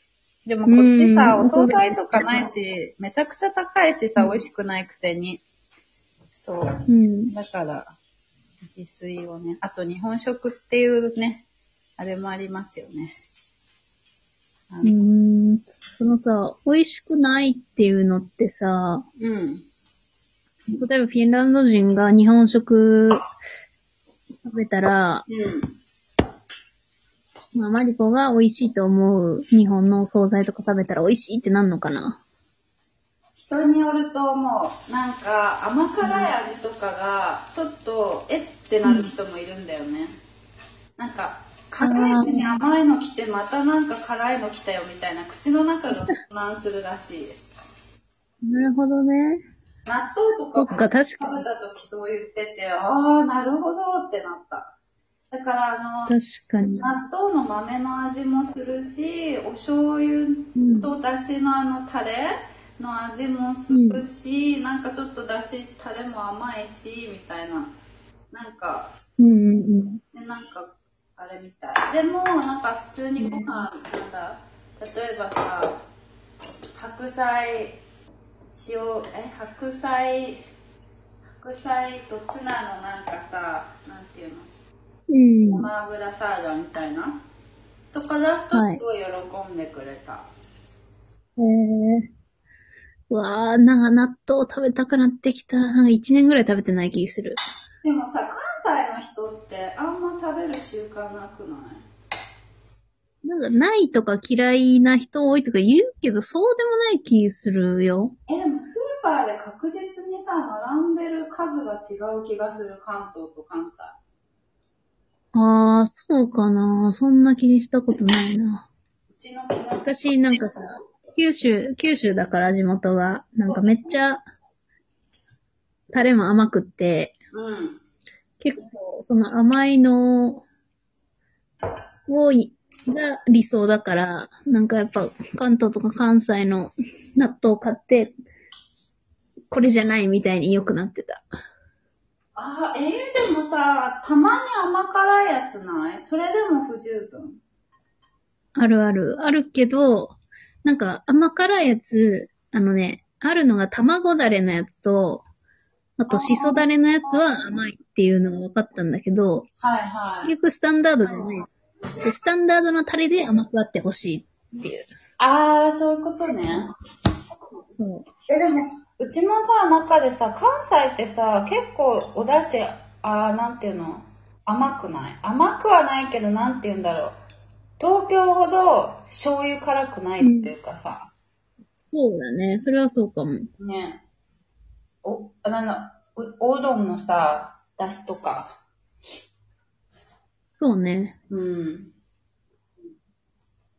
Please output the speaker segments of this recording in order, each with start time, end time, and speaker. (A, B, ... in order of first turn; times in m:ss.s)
0:00.5-0:05.4 A
0:00.7-0:02.5 B
0:06.4-0:07.9 A
0:06.9-0:07.3 B
0:08.8-0:11.5 A
0:12.0-0:13.2 A
0:14.7-0:15.0 A
0:14.8-0:19.0 B
0:19.2-0:19.6 A
0:20.7-0:23.2 B
0:24.4-0:25.2 B
0:25.3-0:25.8 A
0:27.5-0:32.2 B
0:33.4-0:40.1 A
0:36.0-0:36.3 B
0:38.8-0:39.1 B
0:41.0-0:47.3 A
0:41.8-0:42.4 B
0:48.4-0:49.4 B
0:49.9-0:54.7 A
0:50.5-0:51.4 B
0:55.3-1:07.7 A
0:56.1-0:56.9 B
1:00.6-1:00.9 B
1:03.7-1:04.0 B
1:08.3-1:09.0 A
1:09.2-1:10.0 B
1:10.1-1:15.8 A
1:13.2-1:13.6 B
1:16.8-1:17.8 A
1:18.5-1:20.4 A
1:21.4-1:24.5 A
1:25.1-1:25.7 B
1:25.5-1:27.2 A
1:27.9-1:30.3 A
1:28.5-1:28.8 B
1:31.4-1:32.1 B
1:33.1-1:37.4 B
1:37.8-1:41.8 A
1:43.2-1:48.1 B
1:48.3-1:54.0 A
1:55.3-1:58.7 B
1:59.1-2:00.4 A
1:59.8-2:04.2 B
2:03.4-2:04.0 A
2:05.9-2:07.1 B
2:07.3-2:07.8 A
2:08.4-2:10.4 B
2:12.1-2:18.1 B
2:19.5-2:21.2 B
2:22.4-2:27.4 A
2:28.6-2:35.2 B
2:36.0-2:39.5 B
2:36.1-2:37.2 A
2:39.6-2:40.3 A
2:40.2-2:41.4 B
2:42.0-2:44.9 B
2:45.2-2:46.7 A
2:47.7-2:48.1 B
2:48.3-2:57.2 A
2:57.8-3:01.1 A
3:00.2-3:00.5 B
3:01.8-3:03.5 B
3:03.6-3:04.0 A
3:05.0-3:08.6 A
3:10.6-3:11.2 B
3:11.3-3:11.9 A